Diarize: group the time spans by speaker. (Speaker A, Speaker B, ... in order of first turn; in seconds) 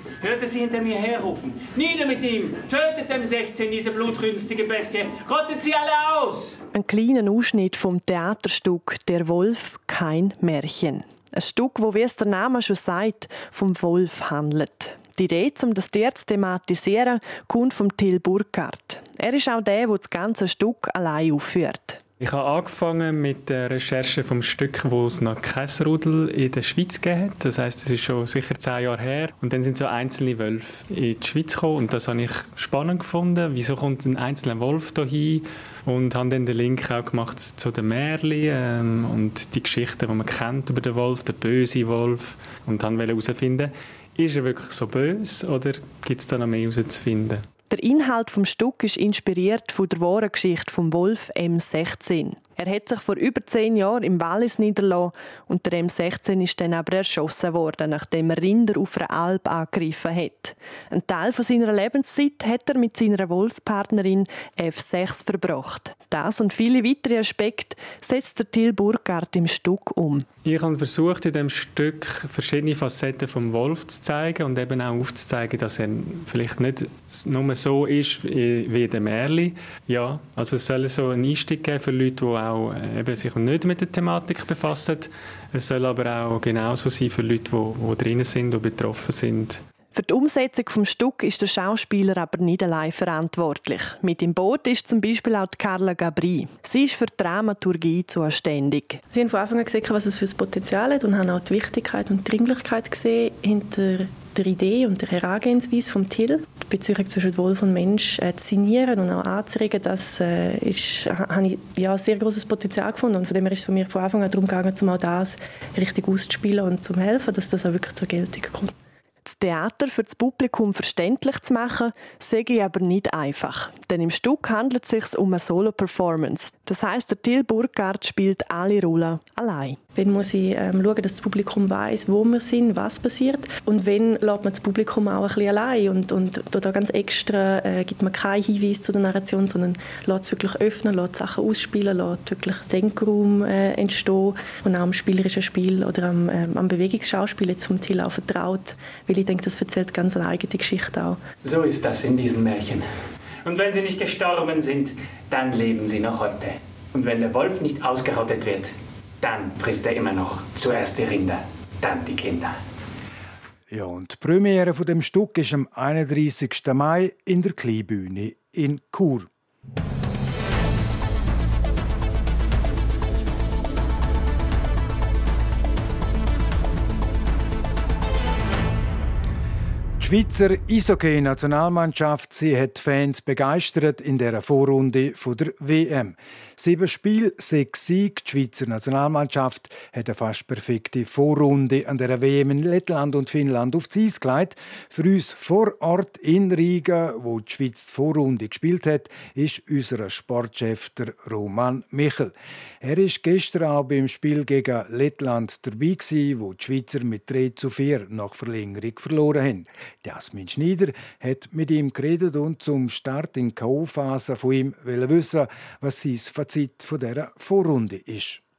Speaker A: 0.2-6.6, 151.4-152.9, 153.4-162.6
Speaker B: 6.7-22.0, 47.7-70.3, 89.9-99.0, 119.2-129.8
Speaker C: 22.2-47.4, 70.4-89.6
Speaker D: 99.1-118.7, 129.9-151.2
Speaker E: 163.7-169.3, 180.0-218.4